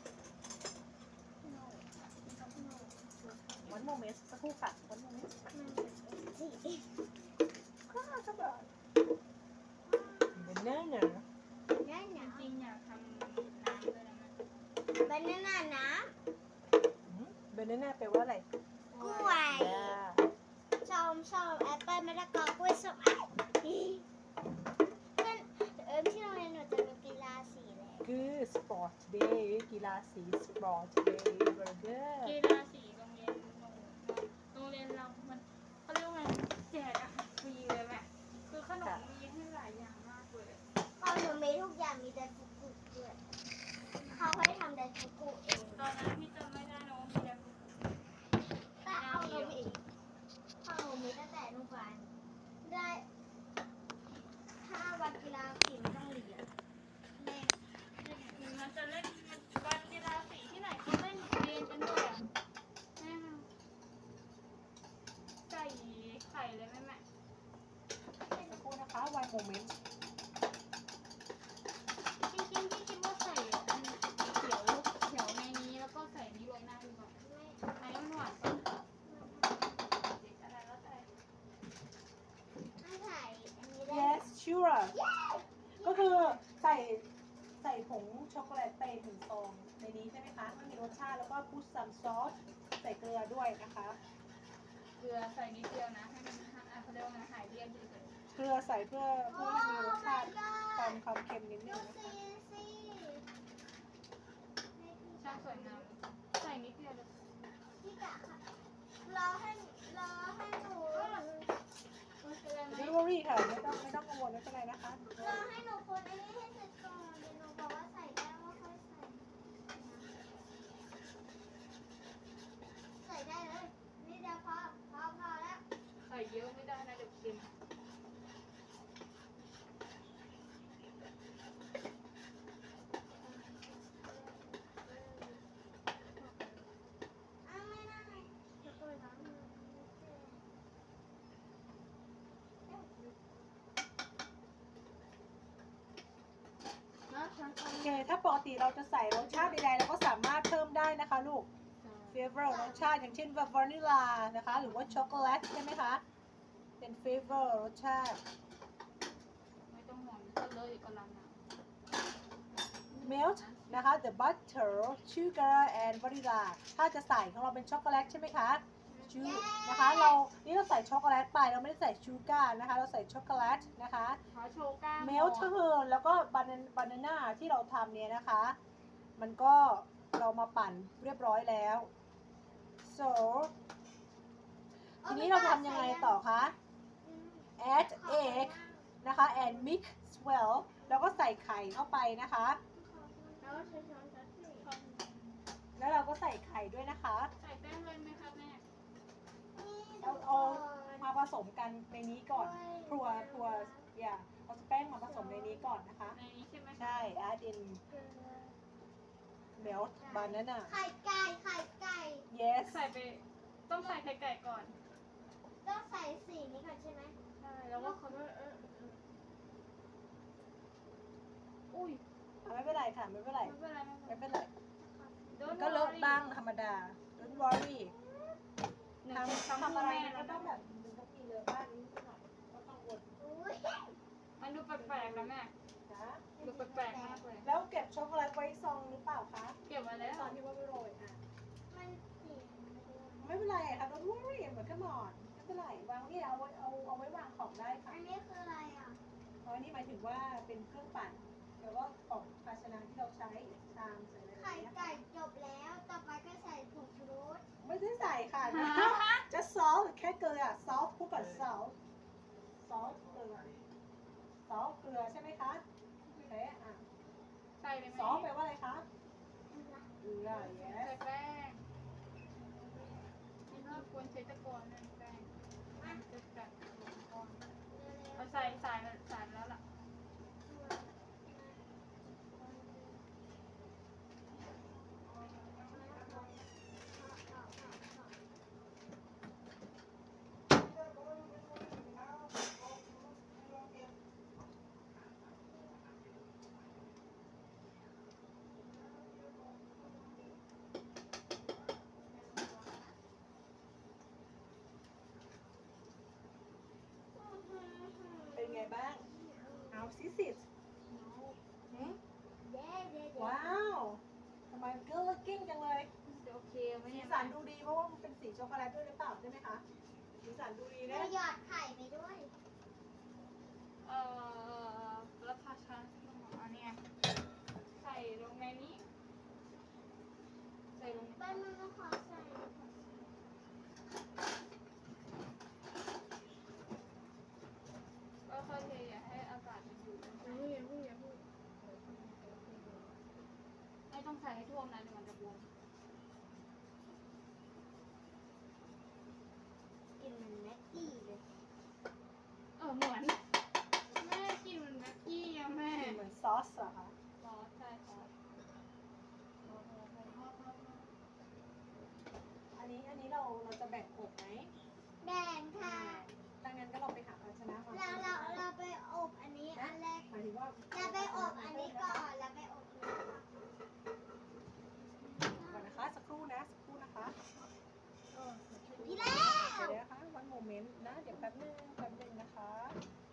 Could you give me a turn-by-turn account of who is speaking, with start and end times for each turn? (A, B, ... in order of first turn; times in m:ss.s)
0:01.4-0:03.8 A
0:02.5-0:03.0 B
0:03.7-0:05.4 C
0:05.5-0:07.0 B
0:07.9-0:08.7 C
0:09.8-0:10.6 B
0:10.4-0:11.3 C
0:11.7-0:12.5 B
0:12.2-0:14.4 A
0:14.9-0:16.1 B
0:17.1-0:18.5 C
0:18.9-0:19.5 A
0:19.0-0:20.0 B
0:19.5-0:20.3 C
0:20.8-0:24.1 B
0:25.1-0:28.1 B
0:28.0-0:32.4 C
0:32.2-0:40.6 A
0:41.0-0:43.2 B
0:44.0-0:44.4 A
0:44.0-0:45.9 B
0:45.8-0:47.9 A
0:48.8-0:49.8 B
0:49.0-0:49.6 A
0:50.6-0:53.1 B
0:54.6-0:56.5 B
0:57.2-0:58.5 B
0:58.3-1:02.3 A
1:03.0-1:03.5 A
1:05.5-1:07.0 A
1:08.3-1:08.6 B
1:08.5-1:09.8 C
1:12.2-1:17.2 A
1:17.2-1:18.0 B
1:17.8-1:18.6 A
1:19.0-1:19.8 B
1:19.8-1:21.1 A
1:22.8-1:24.3 B
1:23.9-1:25.0 C
1:24.9-1:26.4 B
1:25.8-1:27.1 C
1:27.6-1:34.0 C
1:35.0-1:38.1 A
1:38.3-1:42.2 C
1:39.2-1:41.0 B
1:41.6-1:43.2 B
1:44.7-1:45.9 B
1:45.2-1:47.1 A
1:47.8-1:48.5 B
1:49.0-1:51.2 B
1:50.9-1:51.6 A
1:52.2-1:53.0 A
1:52.7-1:55.5 C
1:55.1-1:59.4 B
1:59.8-2:00.1 A
2:03.0-2:05.6 B
2:06.0-2:07.5 A
2:13.2-2:13.6 A
2:13.7-2:14.5 B
2:14.7-2:15.4 A
2:16.2-2:16.7 A
2:17.4-2:20.4 B
2:22.7-2:23.1 B
2:27.1-2:28.0 A
2:27.8-2:31.5 C
2:29.2-2:29.6 A
2:31.8-2:32.4 A
2:32.1-2:36.0 C
2:32.4-2:32.9 B
2:34.6-2:35.3 A
2:36.8-2:38.2 C
2:39.7-2:41.4 A
2:42.7-2:44.0 A
2:43.0-2:54.2 C
2:48.9-2:50.2 B
2:53.4-2:53.7 B
2:54.3-2:55.6 A
2:55.0-2:58.6 C
2:59.2-3:01.9 C
3:02.8-3:03.5 C
3:05.0-3:06.2 B
3:05.0-3:06.6 C
3:07.0-3:09.7 B
3:07.6-3:12.6 C
3:10.8-3:11.2 B
3:12.7-3:14.7 B
3:13.4-3:13.9 A
3:14.6-3:15.5 A
3:15.8-3:17.3 C
3:17.4-3:18.6 A
3:19.5-3:21.1 B
3:20.0-3:26.2 C
3:22.3-3:23.9 B
3:25.0-3:25.7 B
3:26.1-3:27.2 A
3:26.8-3:27.8 C
3:27.9-3:28.6 B
3:29.6-3:30.7 C
3:29.9-3:32.3 B
3:32.3-3:32.9 C
3:32.6-3:34.8 A
3:35.6-3:37.2 B
3:37.4-3:39.2 A
3:37.7-3:38.2 B
3:41.7-3:42.0 A
3:42.4-3:43.5 C
3:43.4-3:44.3 A
3:44.1-3:44.5 C
3:44.8-3:45.5 B
3:45.3-3:46.3 A
3:45.5-3:47.9 C
3:47.2-3:48.4 B
3:49.0-3:50.7 A
3:49.1-3:53.2 C
3:53.2-3:54.0 B
3:54.4-3:55.5 A
3:54.8-3:55.3 C
3:55.9-3:56.2 C
3:56.4-3:57.2 B
3:56.4-3:57.5 A
3:57.4-4:01.2 C
3:59.6-4:00.4 A
4:01.7-4:03.6 B
4:03.2-4:08.0 C
4:07.9-4:09.0 B
4:09.4-4:14.8 C
4:14.4-4:17.4 B
4:17.6-4:21.8 C
4:18.5-4:19.2 A
4:22.6-4:23.5 C
4:24.5-4:25.6 C
4:26.2-4:26.9 C
4:27.6-4:28.3 A
4:27.9-4:28.9 C
4:29.5-4:29.9 B
4:30.0-4:30.9 C
4:30.3-4:31.6 A
4:33.5-4:33.9 B
4:33.5-4:37.5 A
4:35.8-4:36.0 B
4:37.7-4:38.6 B
4:38.2-4:39.6 A
4:40.4-4:43.0 B
4:45.6-4:48.2 B
5:02.0-5:02.9 B
5:07.1-5:09.9 B
5:08.3-5:09.1 C
5:09.7-5:10.5 C
5:10.9-5:11.4 B
5:11.7-5:12.0 C
5:12.4-5:13.6 B
5:13.2-5:15.9 C
5:16.0-5:17.4 A
5:16.9-5:19.6 C
5:20.2-5:21.2 C
5:20.8-5:22.3 B
5:23.8-5:26.8 A
5:27.8-5:28.9 A
5:30.8-5:31.4 A
5:31.1-5:33.1 B
5:38.2-5:40.5 A
5:40.2-5:41.2 B
5:42.0-5:42.9 B
5:43.9-5:45.5 A
5:50.0-5:51.2 B
5:52.6-5:53.3 A
5:53.9-5:56.0 A
5:55.8-5:56.9 C
5:57.2-5:58.4 A
5:59.4-6:00.9 A
6:02.5-6:04.5 C
6:05.0-6:06.1 B
6:05.6-6:08.5 C
6:07.7-6:10.1 B
6:09.5-6:12.1 C
6:10.7-6:13.4 B
6:14.8-6:15.9 B
6:15.5-6:17.2 C
6:18.1-6:22.8 C
6:18.7-6:19.8 B